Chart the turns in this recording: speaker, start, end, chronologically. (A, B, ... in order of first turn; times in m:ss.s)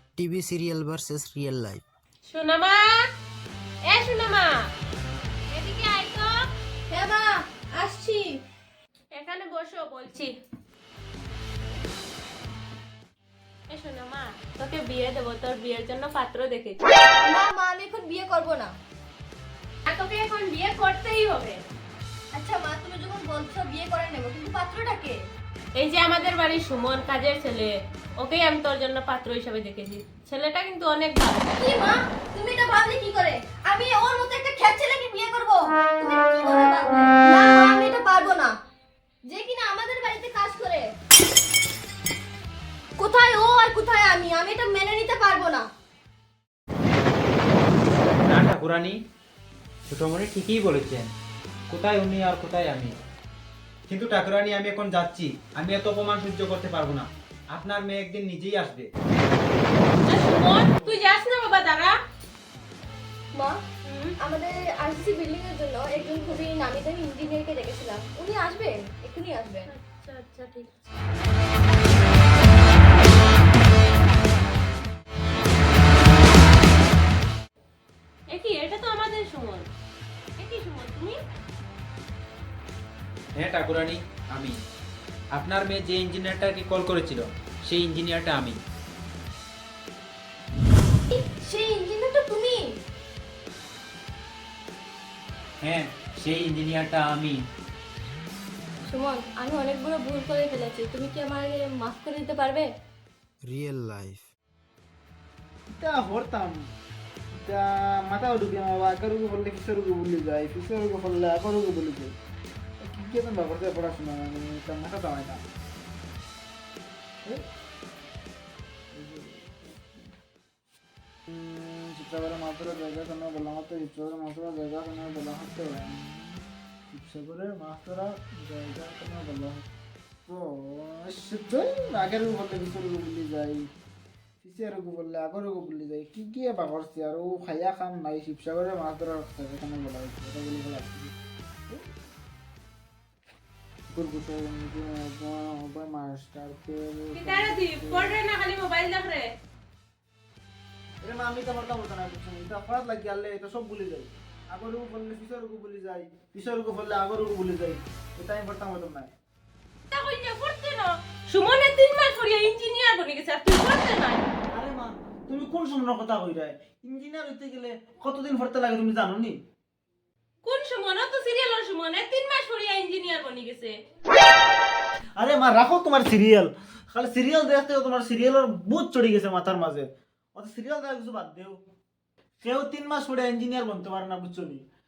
0:00.2-0:01.8 A
0:02.2-0:02.8 B
0:03.8-0:04.5 B
0:05.5-0:06.4 B
0:06.9-0:08.4 C
0:09.1-0:10.3 B
0:13.7-0:16.8 B
0:17.2-0:18.7 C
0:19.9-0:21.6 B
0:22.3-0:25.2 C
0:25.8-0:31.5 B
0:31.6-0:38.5 C
0:39.3-0:40.9 C
0:43.0-0:45.7 C
0:48.2-0:49.0 D
0:49.9-0:51.1 D
0:51.7-0:53.0 D
0:53.9-0:58.9 D
1:00.1-1:01.9 B
1:03.8-1:04.1 B
1:04.2-1:09.7 C
1:09.6-1:10.8 B
1:18.3-1:19.6 B
1:20.4-1:21.2 B
1:23.4-1:24.6 D
1:25.3-1:28.6 D
1:31.1-1:32.8 C
1:35.6-1:37.4 D
1:38.8-1:42.7 C
1:43.4-1:44.3 A
1:45.7-1:46.6 E
1:47.3-1:52.1 E
1:52.8-1:55.4 E
1:58.9-2:00.1 E
2:01.3-2:09.6 E
2:10.3-2:13.7 E
2:14.4-2:21.1 E
2:23.9-2:28.1 E
2:27.1-2:29.3 B
2:31.0-2:39.1 E
2:39.9-2:44.3 B
2:44.5-2:49.4 E
2:50.4-2:53.8 B
2:55.2-3:01.6 E
3:02.4-3:04.6 E